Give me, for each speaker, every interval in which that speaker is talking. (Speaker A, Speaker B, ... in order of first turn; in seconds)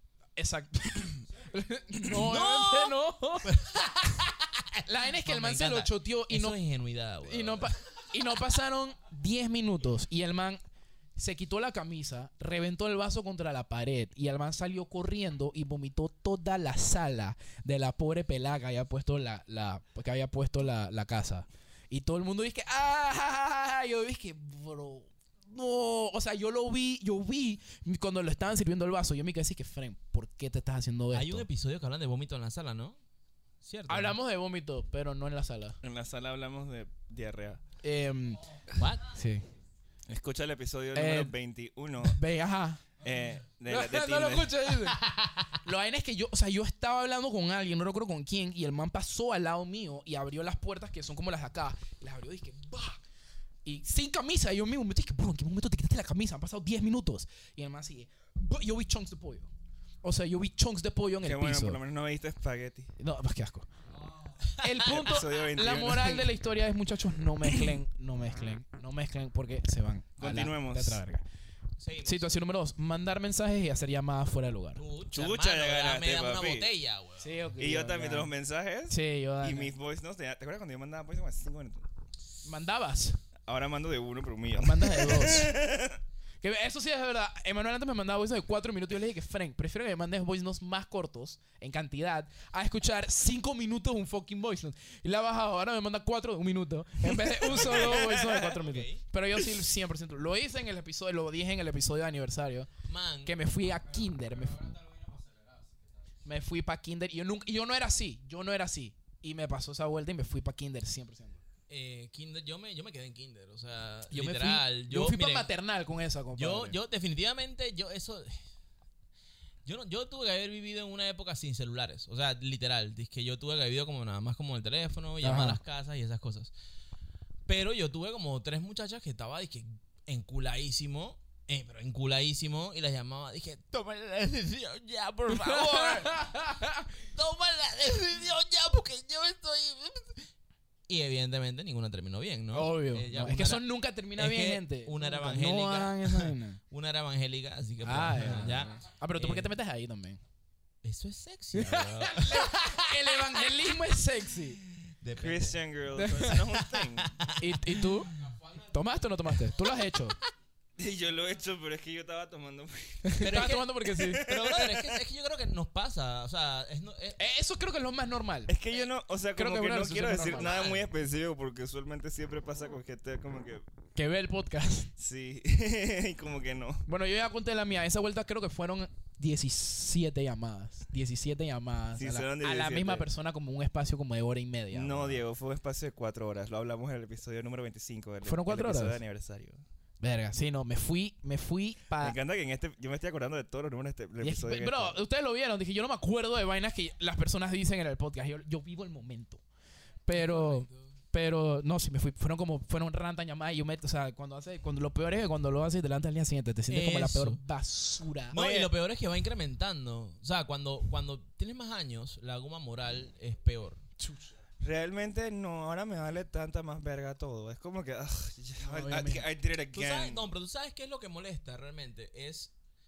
Speaker A: 0.4-3.6, 4.8-6.6, 7.2-10.6, 11.2-31.4, 33.9-35.8, 37.8-38.4, 39.0-39.4, 40.9-41.3, 42.0-42.9, 43.7-45.0, 45.6-53.0, 53.6-59.5, 60.0-61.8, 63.0-63.7, 64.6-71.2, 72.0-74.8, 77.2-78.3, 78.9-79.7, 82.4-83.2, 84.6-85.5, 86.4-102.7, 103.2-104.8, 106.2-111.4, 114.1-116.8, 125.2-125.6, 135.3-136.8, 142.5-146.6, 147.8-150.2, 151.5-154.6, 155.9-156.4, 157.4-160.2, 163.0-164.2, 167.2-168.5, 169.3-170.6, 173.9-174.9, 176.9-185.2, 188.2-189.0, 190.0-192.2, 194.2-199.4, 200.1-208.4, 218.6-219.3
Speaker B: 2.1-7.8, 31.1-33.0, 33.6-34.2, 38.8-39.0, 44.7-45.5, 64.6-65.0, 71.8-72.3, 74.8-77.3, 97.6-99.0, 102.8-103.3, 111.7-115.5, 116.3-118.4, 119.6-126.5, 127.5-136.2, 137.1-140.2, 140.9-143.6, 144.2-149.5, 150.8-153.4, 154.8-155.6, 156.3-157.9, 163.2-167.2, 170.2-170.9, 200.2-200.7, 206.7-207.4, 208.3-213.8, 219.7-222.5
Speaker C: 35.8-37.6, 40.1-42.2, 43.0-44.5, 61.2-62.9, 64.9-66.3, 70.2-71.0, 75.1-76.7, 77.6-81.8, 83.5-86.0, 97.1-98.5, 155.2-157.1, 160.8-163.3, 164.0-165.0, 168.5-173.6, 175.0-176.8, 182.0-183.1, 184.7-189.6, 192.0-195.0, 208.3-208.7, 214.6-220.3